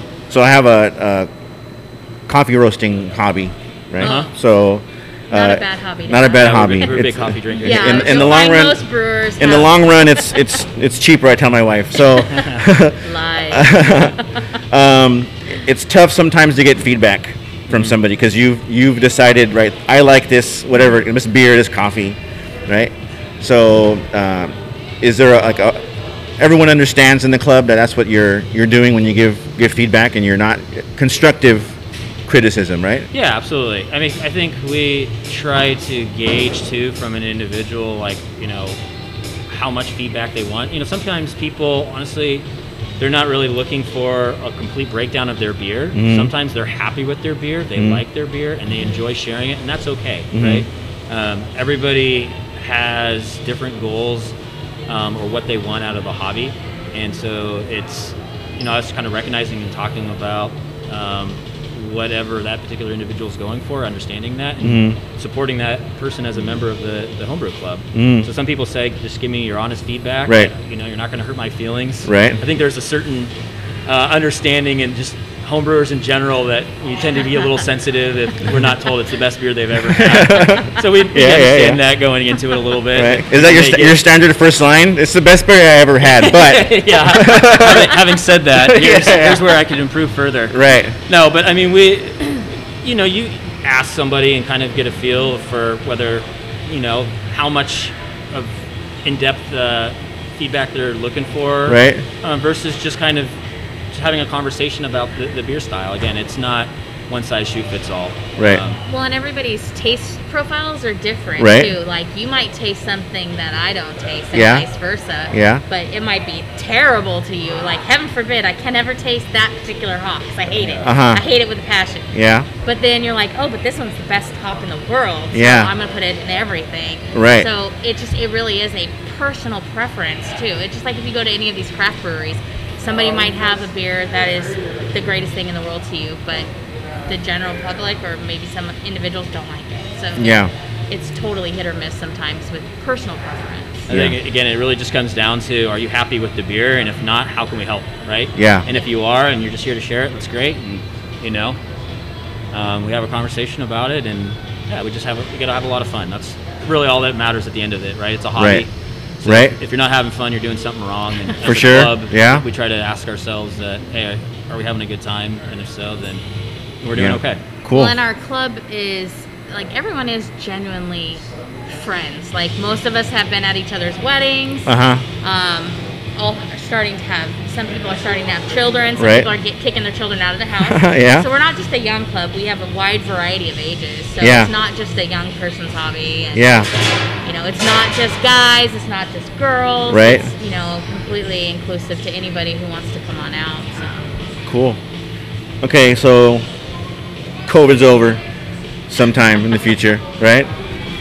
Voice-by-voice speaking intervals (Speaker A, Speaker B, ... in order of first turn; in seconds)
Speaker A: 0.3-1.3, 2.3-8.8, 9.4-14.2, 14.7-25.8, 26.4-31.8, 32.3-33.1, 45.9-46.3, 47.8-48.0, 50.3-50.6, 64.6-65.0, 67.9-68.3, 70.2-70.5, 72.0-72.4, 79.9-81.8, 82.9-88.0, 88.5-89.5, 90.5-91.0, 101.7-102.0, 108.4-108.6, 111.4-111.7, 114.3-114.7, 115.3-115.6, 120.8-121.2, 122.1-122.5, 125.3-125.7, 127.1-127.5, 140.2-140.5, 143.9-144.2, 148.3-148.7, 158.4-158.6, 159.2-159.6, 161.4-162.4, 166.9-167.9, 174.7-175.0, 179.0-179.3, 180.6-181.3, 184.2-184.5, 186.3-186.7, 189.9-190.3, 194.4-194.8, 195.6-196.4, 197.4-198.2, 198.9-200.5
Speaker B: 4.0-4.3, 6.3-8.1, 17.7-17.9, 33.1-38.8, 39.5-42.5, 43.0-54.3, 54.9-73.3, 73.8-84.0, 86.0-103.3, 103.9-108.8, 143.9-151.6, 152.5-158.7, 159.2-166.2, 166.8-167.4
Speaker C: 4.0-4.3, 5.3-6.9, 7.6-10.4, 12.2-12.5, 13.0-14.4, 108.8-122.1, 122.6-136.5, 137.1-143.9, 167.7-186.7, 187.2-194.1